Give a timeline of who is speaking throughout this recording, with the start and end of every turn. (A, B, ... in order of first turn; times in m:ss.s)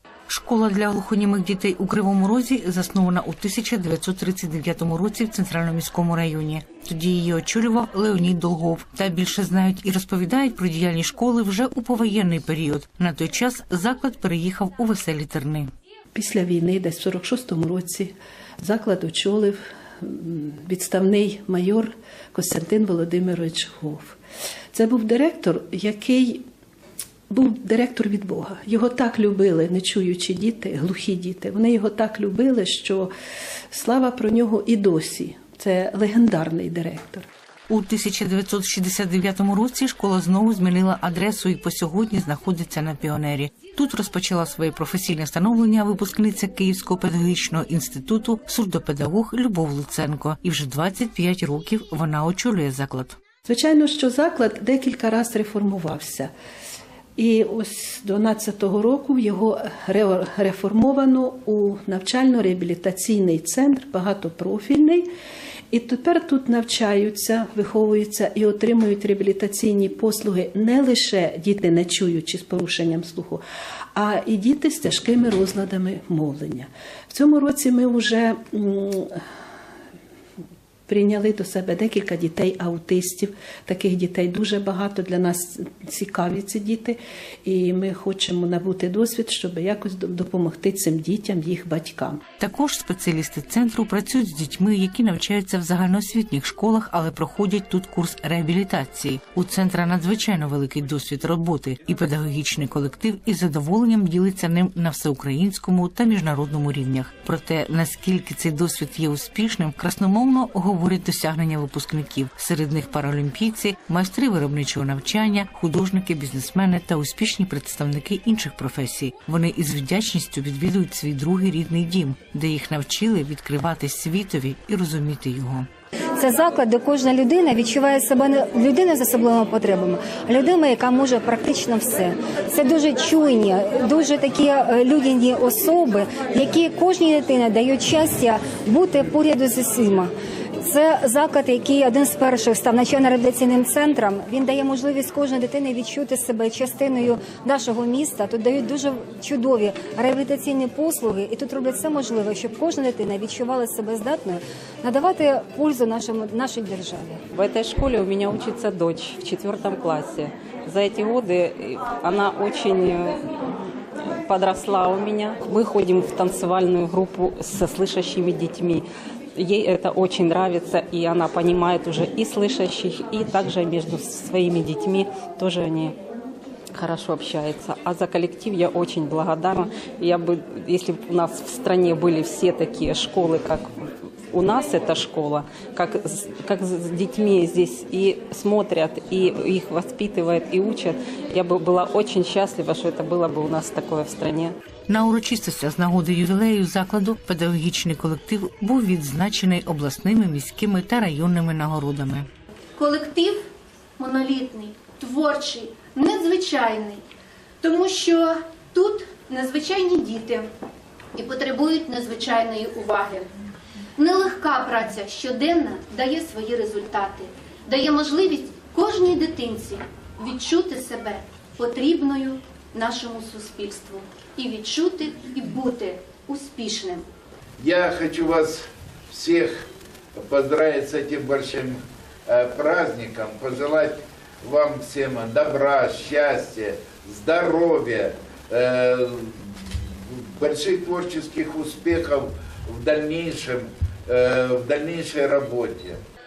0:00.3-0:15.7 A
0:16.1-0:24.2 B
0:24.7-0:26.4 B
0:27.3-0:33.1 B
0:33.7-0:37.2 B
0:37.7-0:53.2 A
0:53.4-0:56.3 B
0:57.2-1:05.1 B
1:05.7-1:13.4 B
1:14.0-1:19.2 B
1:20.9-1:32.2 B
1:32.4-2:05.7 A
2:06.2-2:37.2 C
2:37.3-2:43.2 D
2:44.1-2:56.0 D
2:56.7-3:03.7 D
3:04.3-3:14.5 D
3:14.9-3:22.3 A
3:22.8-3:23.4 E
3:24.0-3:27.0 E
3:27.6-3:30.5 E
3:31.2-3:33.3 E
3:34.0-3:47.0 E
3:47.6-4:06.0 F